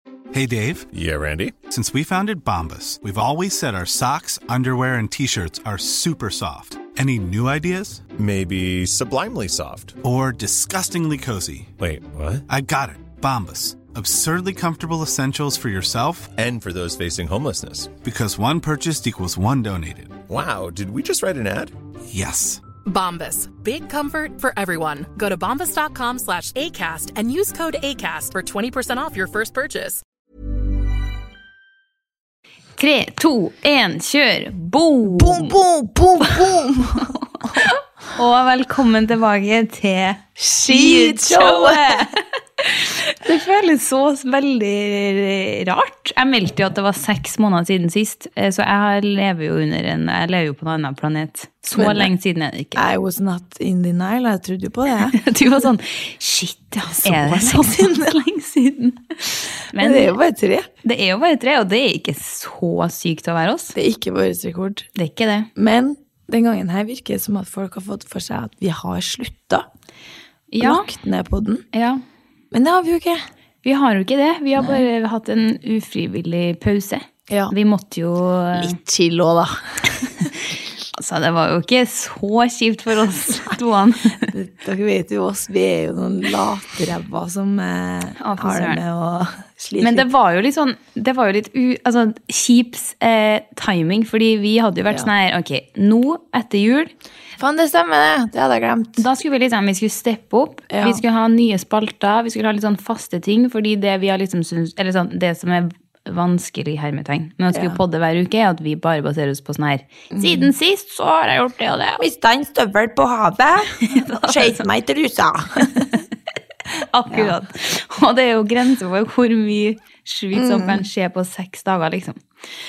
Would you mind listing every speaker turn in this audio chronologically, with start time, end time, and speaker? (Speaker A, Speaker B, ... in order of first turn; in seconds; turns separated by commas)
Speaker A: 0.3-0.9, Speaker B: 0.9-1.5, Speaker A: 1.7-8.1, Speaker B: 8.1-10.0, Speaker A: 10.0-11.7, Speaker B: 11.8-12.4, Speaker A: 12.5-16.3, Speaker B: 16.3-17.9, Speaker A: 18.0-20.3, Speaker B: 20.3-21.7, Speaker A: 22.1-22.6, Speaker C: 22.9-30.0, Speaker D: 32.8-35.5, Speaker E: 35.1-37.1, Speaker D: 37.0-52.8, Speaker E: 40.4-42.1, Speaker E: 51.8-52.1, Speaker E: 52.8-55.2, Speaker D: 55.1-60.2, Speaker E: 57.0-58.2, Speaker E: 59.8-60.7, Speaker D: 60.8-63.8, Speaker E: 63.8-64.9, Speaker D: 65.0-65.5, Speaker E: 65.6-69.7, Speaker D: 70.5-70.9, Speaker E: 70.6-71.7, Speaker D: 71.7-72.0, Speaker E: 72.5-73.2, Speaker D: 73.6-78.8, Speaker E: 74.6-74.8, Speaker E: 77.3-77.5, Speaker E: 78.5-80.3, Speaker D: 80.9-84.3, Speaker E: 83.3-83.6, Speaker E: 84.3-90.1, Speaker D: 88.2-88.8, Speaker D: 89.8-96.9, Speaker E: 97.4-99.0, Speaker D: 99.0-112.0, Speaker E: 100.7-101.0, Speaker E: 107.5-107.8, Speaker E: 110.1-110.5, Speaker E: 112.0-115.9, Speaker D: 113.8-114.6, Speaker D: 116.9-122.2, Speaker E: 120.3-120.8